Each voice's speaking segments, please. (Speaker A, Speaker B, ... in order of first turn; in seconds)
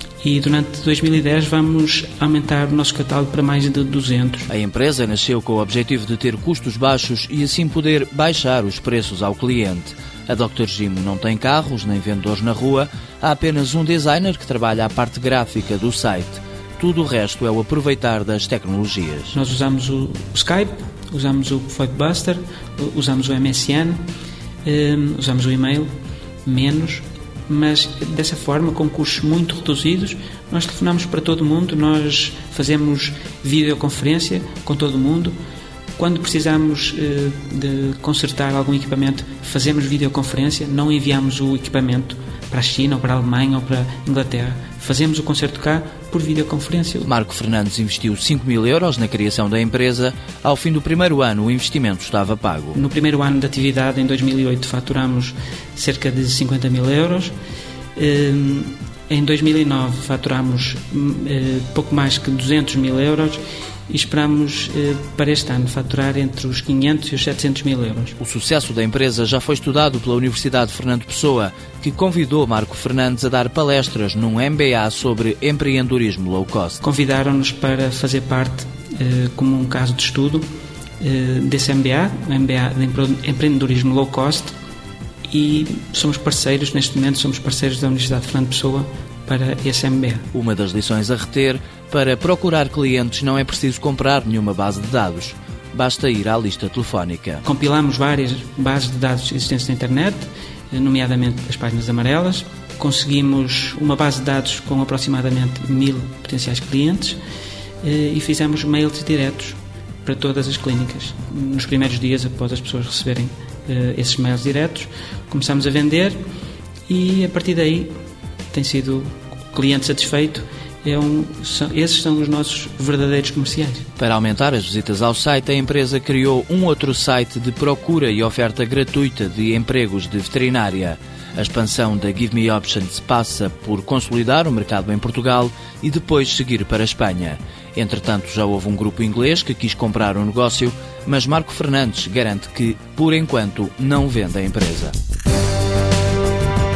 Speaker A: 0.2-4.5, 19.3-24.0, 24.6-25.9, 26.4-35.4, 36.0-47.1, 52.7-57.3, 58.0-68.2, 76.8-80.5, 81.0-84.6, 85.3-90.3, 97.4-107.2, 107.8-116.2, 116.9-117.9, 118.5-123.9
Speaker B: 4.5-19.4, 47.0-52.8, 68.2-76.8, 90.3-97.4, 124.0-144.9